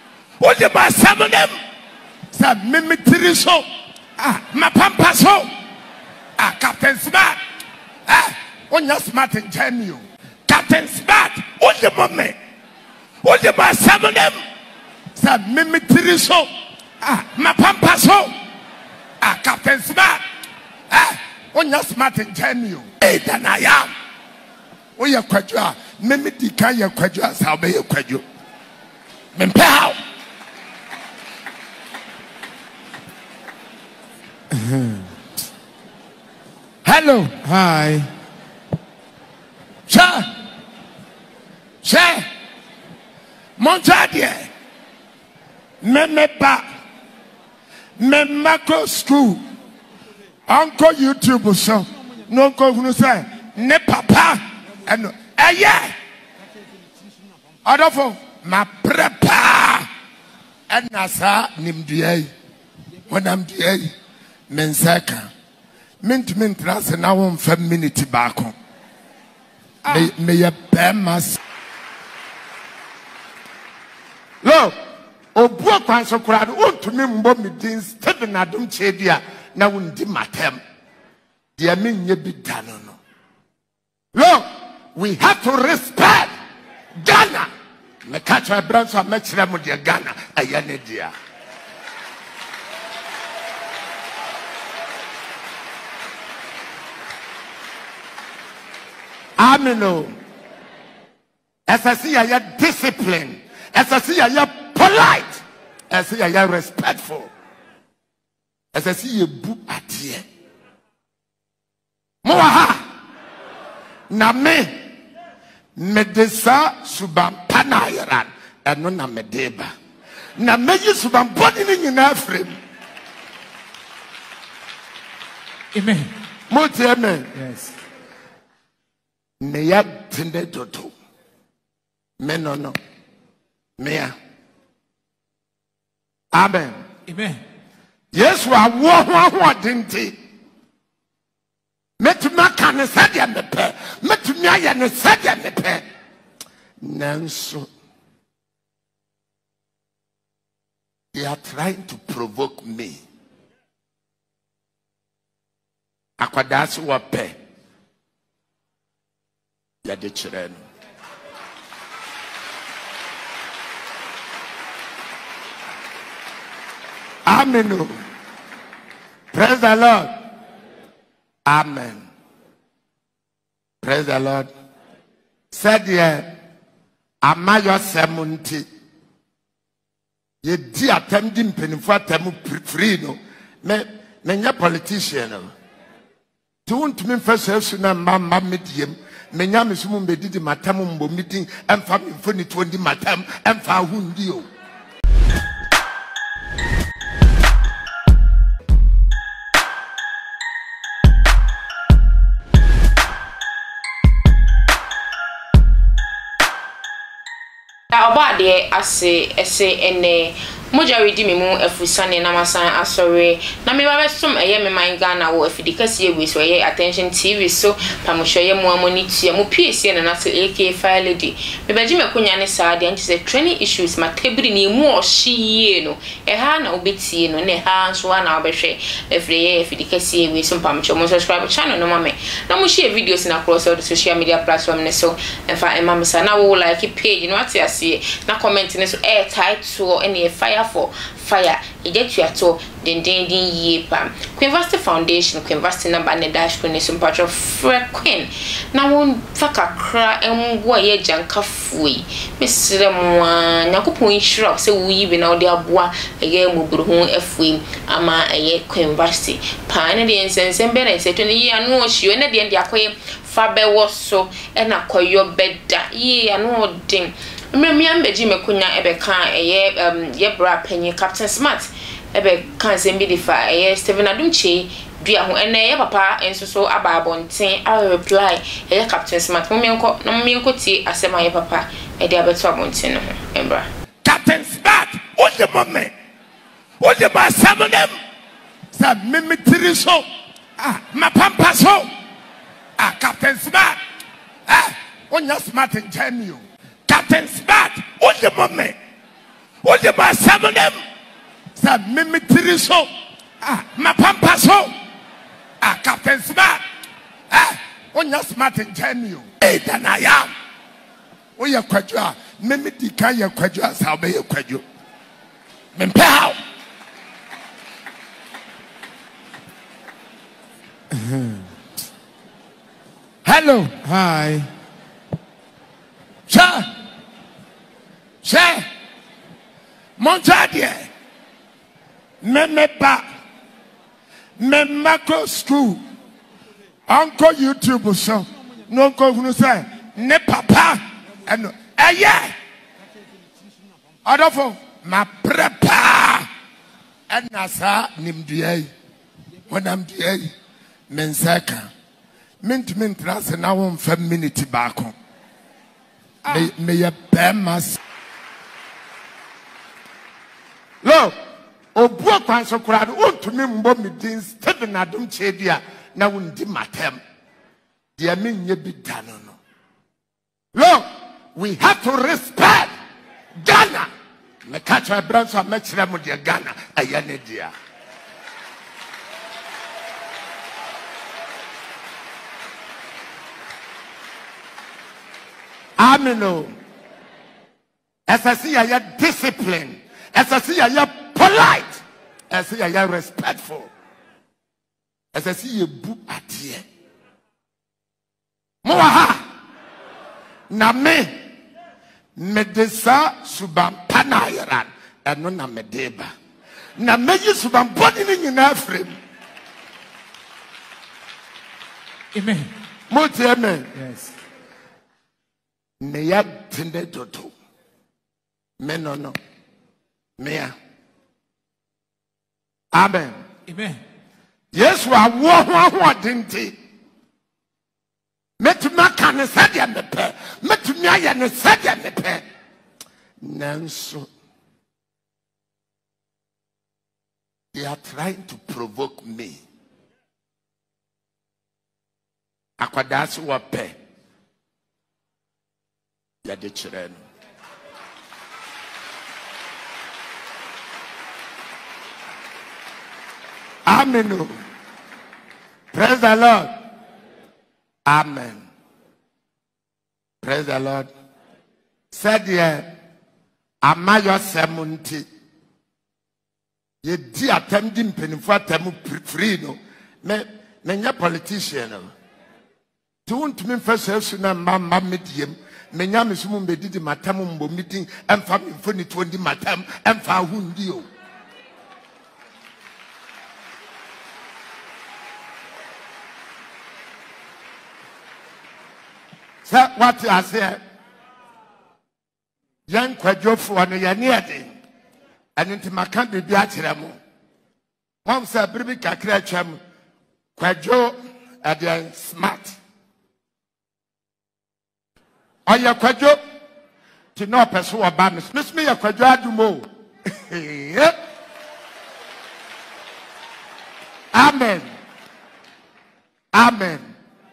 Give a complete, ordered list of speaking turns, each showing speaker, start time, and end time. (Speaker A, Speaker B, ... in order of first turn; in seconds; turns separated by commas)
Speaker A: 0.4-1.6, Speaker A: 2.3-3.6, Speaker A: 4.2-5.5, Speaker A: 6.4-7.4, Speaker A: 8.1-12.3, Speaker A: 13.2-14.4, Speaker A: 15.2-16.5, Speaker A: 17.0-18.3, Speaker A: 19.2-20.2, Speaker A: 20.9-23.9, Speaker A: 24.9-28.2, Speaker A: 29.3-30.0, Speaker A: 36.8-37.7, Speaker B: 37.7-38.1, Speaker A: 39.9-40.3, Speaker A: 41.8-42.2, Speaker A: 43.6-44.5, Speaker A: 45.8-46.6, Speaker A: 48.0-49.4, Speaker A: 50.5-55.9, Speaker A: 57.6-59.9, Speaker A: 60.7-62.3, Speaker A: 63.1-63.9, Speaker A: 64.5-65.3, Speaker A: 66.0-68.5, Speaker A: 69.8-71.4, Speaker A: 74.4-74.7, Speaker A: 75.3-80.6, Speaker A: 81.6-83.0, Speaker A: 84.1-86.3, Speaker A: 87.0-87.5, Speaker A: 88.0-91.1, Speaker A: 99.4-100.1, Speaker A: 101.7-107.3, Speaker A: 108.7-110.2, Speaker A: 112.2-112.8, Speaker A: 114.1-114.8, Speaker A: 115.8-119.7, Speaker A: 120.3-122.6, Speaker B: 125.7-126.1, Speaker A: 126.5-127.4, Speaker B: 127.4-127.7, Speaker A: 129.4-130.9, Speaker A: 132.2-132.8, Speaker A: 133.8-134.1, Speaker A: 136.3-136.8, Speaker B: 137.1-137.4, Speaker A: 138.1-140.1, Speaker A: 142.0-145.8, Speaker A: 146.8-147.7, Speaker A: 151.1-153.0, Speaker A: 156.2-157.3, Speaker A: 159.8-160.6, Speaker A: 167.2-168.0, Speaker A: 169.3-170.1, Speaker A: 171.4-172.1, Speaker A: 173.8-174.5, Speaker A: 175.5-176.3, Speaker A: 177.2-178.6, Speaker A: 180.4-185.5, Speaker A: 186.7-194.5, Speaker C: 207.9-283.7, Speaker A: 284.0-285.9, Speaker A: 286.8-287.9, Speaker A: 288.7-290.0, Speaker A: 290.6-291.9, Speaker A: 292.8-293.8, Speaker A: 294.5-298.8, Speaker A: 299.6-300.8, Speaker A: 301.6-302.9, Speaker A: 303.4-304.7, Speaker A: 305.6-306.6, Speaker A: 307.3-310.3, Speaker A: 311.4-314.6, Speaker A: 315.7-316.4, Speaker A: 323.2-324.2, Speaker B: 324.1-324.4, Speaker A: 326.3-326.7, Speaker A: 328.2-328.6, Speaker A: 330.0-330.9, Speaker A: 332.2-333.0, Speaker A: 334.4-335.8, Speaker A: 336.9-342.3, Speaker A: 344.1-346.3, Speaker A: 347.1-348.7, Speaker A: 349.5-350.3, Speaker A: 350.9-351.7, Speaker A: 352.4-354.9, Speaker A: 356.2-357.8, Speaker A: 360.8-361.1, Speaker A: 361.7-367.0, Speaker A: 368.0-369.4, Speaker A: 370.5-372.7, Speaker A: 373.4-373.9, Speaker A: 374.4-377.5, Speaker A: 385.8-386.5, Speaker A: 388.1-393.7, Speaker A: 395.1-396.6, Speaker A: 398.6-399.2, Speaker A: 400.5-401.1, Speaker A: 402.1-406.1, Speaker A: 406.8-409.0, Speaker B: 412.1-412.5, Speaker A: 412.9-413.7, Speaker B: 413.8-414.1, Speaker A: 415.8-417.3, Speaker A: 418.6-419.2, Speaker A: 420.2-420.5, Speaker A: 422.7-423.2, Speaker B: 423.5-423.8, Speaker A: 424.5-426.5, Speaker A: 428.4-432.2, Speaker A: 433.2-434.1, Speaker A: 437.5-439.4, Speaker A: 442.6-443.7, Speaker A: 446.2-447.0, Speaker A: 453.6-454.4, Speaker A: 455.7-456.5, Speaker A: 457.9-458.4, Speaker A: 460.2-460.9, Speaker A: 461.9-462.7, Speaker A: 463.6-465.0, Speaker A: 466.8-471.9, Speaker A: 473.1-480.9, Speaker A: 489.4-490.6, Speaker A: 492.7-494.6, Speaker A: 495.4-497.0, Speaker A: 498.0-499.6, Speaker A: 500.4-502.6, Speaker A: 505.4-506.2, Speaker A: 507.1-510.9, Speaker A: 514.1-514.7, Speaker A: 516.3-516.9